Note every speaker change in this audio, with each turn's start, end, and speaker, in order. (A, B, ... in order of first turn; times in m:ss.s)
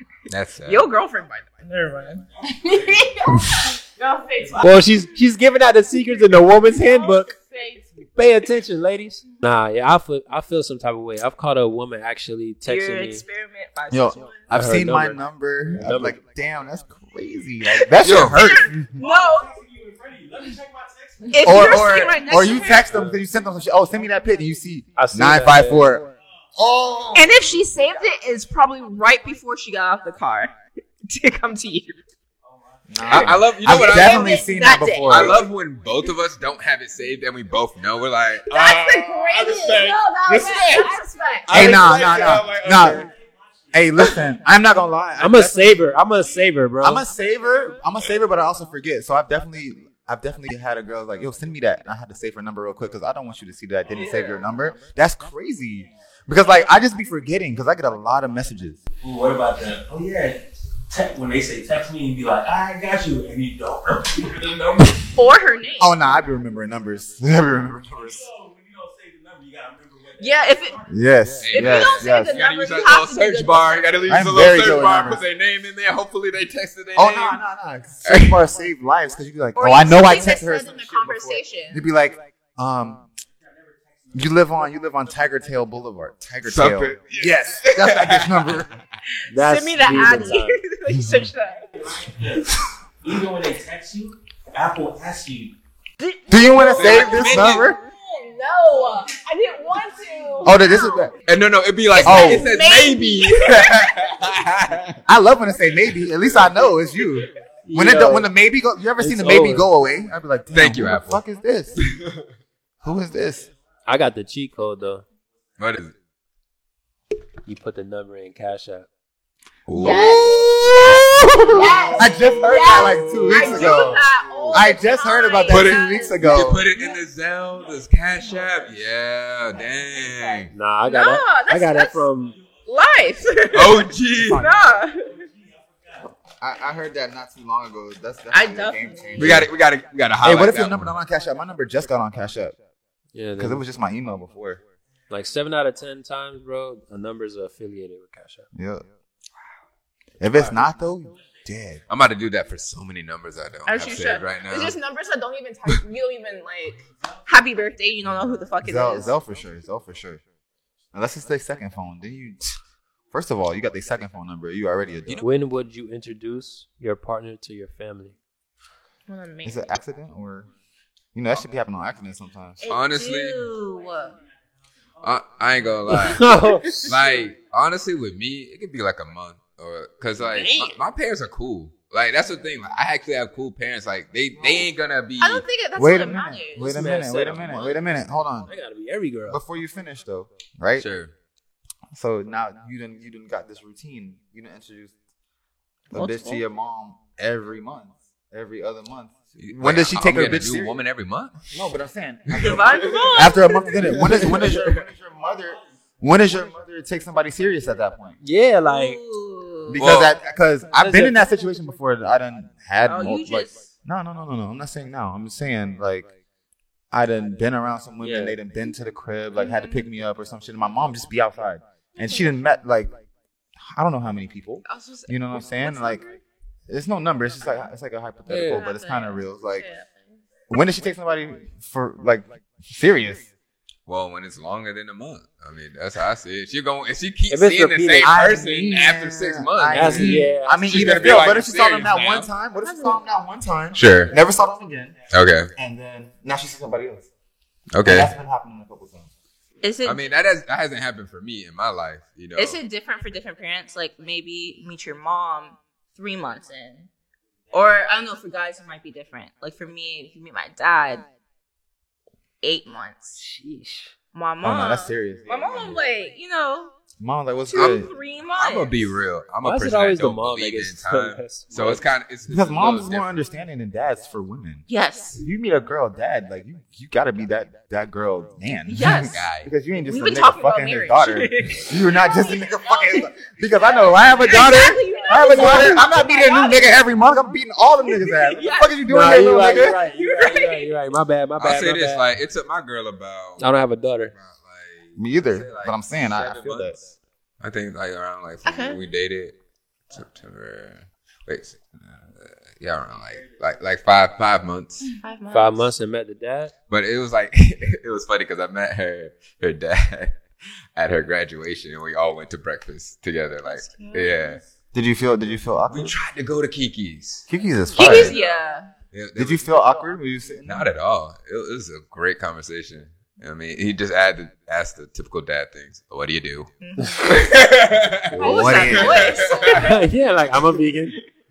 0:00.3-0:00.8 A
0:00.6-0:02.2 B
0:02.5-0:04.8 C
0:02.6-0:03.3 D
0:04.4-0:04.8 D
0:04.6-0:07.3 E
0:06.6-0:08.2 C
0:08.1-0:13.2 E
0:12.6-0:14.4 B
0:13.9-0:19.0 F
0:14.5-0:16.2 E
0:17.9-0:19.5 B
0:18.0-0:18.4 A
0:18.9-0:21.8 D
0:21.3-0:22.9 B
0:21.4-0:27.4 F
0:25.0-0:25.9 E
0:27.1-0:30.5 B
0:31.0-0:32.0 B
0:32.9-0:35.4 F
0:33.0-0:33.4 D
0:33.0-0:34.5 A
0:33.6-0:35.4 B
0:35.0-0:40.0 A
0:38.5-0:41.7 B
0:40.3-0:40.8 E
0:40.4-0:41.0 C
0:40.4-0:40.8 D
0:41.5-0:43.1 A
0:41.5-0:43.1 F
0:42.4-0:43.1 D
0:43.7-0:45.9 F
0:45.2-0:47.0 E
0:46.8-0:58.8 F
0:59.0-1:05.2 D
1:05.1-1:06.0 B
1:05.8-1:08.3 F
1:08.0-1:10.9 D
1:10.2-1:10.8 B
1:10.9-1:12.4 F
1:11.4-1:17.4 A
1:11.5-1:13.9 B
1:14.1-1:15.2 F
1:16.9-1:23.0 F
1:18.0-1:18.4 A
1:19.6-1:21.8 B
1:24.1-1:28.7 F
1:26.4-1:28.6 A
1:29.3-1:30.6 E
1:29.3-1:31.6 B
1:31.9-1:35.6 D
1:36.0-1:41.1 B
1:36.3-1:37.8 F
1:36.7-1:37.7 A
1:40.4-1:41.1 F
1:41.2-1:45.0 A
1:41.9-1:44.2 B
1:42.0-1:42.5 F
1:45.1-1:51.8 F
1:47.6-1:48.3 E
1:49.0-1:49.7 E
1:50.5-1:51.2 A
1:51.8-1:52.2 A
1:52.8-1:53.5 F
1:53.8-1:55.0 E
1:55.6-1:55.9 A
1:57.4-1:58.9 E
1:59.7-2:03.8 A
1:59.7-2:00.7 F
1:59.8-2:06.8 B
2:01.5-2:02.1 C
2:01.9-2:06.6 F
2:03.5-2:04.8 C
2:05.5-2:10.5 A
2:10.0-2:10.4 C
2:10.5-2:12.4 E
2:10.8-2:12.1 B
2:12.6-2:15.2 B
2:13.5-2:14.5 A
2:16.4-2:19.5 F
2:18.3-2:19.4 B
2:19.2-2:20.9 A
2:20.2-2:22.6 F
2:23.1-2:23.6 E
2:23.4-2:24.6 F
2:25.1-2:28.4 E
2:28.5-2:28.8 F
2:30.2-2:31.8 F
2:31.9-2:34.8 A
2:33.6-2:39.1 B
2:38.6-2:40.2 F
2:40.9-2:42.4 F
2:43.1-2:45.2 F
2:45.2-2:48.1 E
2:49.1-2:49.7 B
2:49.4-2:50.5 F
2:51.1-2:52.6 F
2:52.6-2:54.2 B
2:52.7-2:53.4 A
2:55.0-3:05.4 A
2:55.9-2:56.9 E
3:00.2-3:00.7 E
3:04.3-3:04.7 F
3:05.2-3:06.9 B
3:05.8-3:08.5 F
3:06.6-3:07.8 E
3:08.4-3:09.4 E
3:09.3-3:10.9 F
3:10.8-3:11.1 A
3:11.9-3:14.9 F
3:15.9-3:20.8 F
3:16.0-3:16.3 B
3:19.4-3:21.4 A
3:21.5-3:28.2 F
3:22.3-3:23.1 A
3:22.4-3:24.0 B
3:23.8-3:24.8 A
3:28.2-3:29.0 E
3:28.6-3:29.8 B
3:29.7-3:36.1 F
3:29.8-3:30.2 A
3:30.8-3:31.2 E
3:32.8-3:33.5 B
3:36.9-3:43.0 F
3:38.0-3:38.4 E
3:39.3-3:39.9 B
3:42.0-3:42.3 B
3:43.6-3:46.0 F
3:44.6-3:46.2 B
3:46.7-3:49.7 F
3:48.3-3:48.6 E
3:48.3-3:50.2 B
3:50.5-3:53.3 F
3:53.9-4:02.3 A
3:57.3-3:58.2 E
3:58.0-4:05.0 F
3:59.7-4:01.3 E
4:02.6-4:03.0 B
4:03.8-4:04.1 A
4:05.1-4:05.5 A
4:05.5-4:07.1 F
4:07.7-4:08.1 A
4:07.8-4:09.1 F
4:09.6-4:10.1 B
4:09.8-4:12.6 A
4:12.4-4:16.9 B
4:17.5-4:21.0 B
4:22.4-4:23.2 B
4:23.2-4:23.9 E
4:24.1-4:26.7 B
4:24.4-4:25.8 F
4:27.0-4:27.9 F
4:27.5-4:28.9 B
4:27.6-4:27.8 A
4:28.4-4:33.2 A
4:29.4-4:31.8 E
4:32.3-4:49.8 F
4:34.7-4:35.2 B
4:38.7-4:39.2 B
4:38.9-4:39.5 A
4:39.8-4:41.7 B
4:41.9-4:43.1 C
4:43.6-4:46.1 C
4:44.2-4:46.7 B
4:48.0-4:48.8 B
4:48.9-4:52.1 E
4:49.5-4:50.7 B
4:51.4-4:53.5 A
4:53.4-4:54.1 E
4:54.1-4:56.9 A
4:55.0-4:56.8 F
4:57.4-4:59.4 A
4:58.4-4:58.8 B
4:59.9-5:04.9 A
5:05.0-5:05.7 B
5:05.3-5:06.5 E
5:06.7-5:10.2 A
5:10.8-5:14.4 A
5:13.4-5:14.4 B
5:14.7-5:16.0 F
5:15.7-5:17.2 A
5:17.3-5:18.1 F
5:17.7-5:18.7 B
5:17.8-5:18.4 A
5:18.9-5:19.6 A
5:19.2-5:20.7 F
5:20.4-5:29.7 A
5:26.6-5:27.2 B
5:28.1-5:29.8 B
5:28.2-5:29.2 F
5:28.2-5:29.8 C
5:29.5-5:31.0 E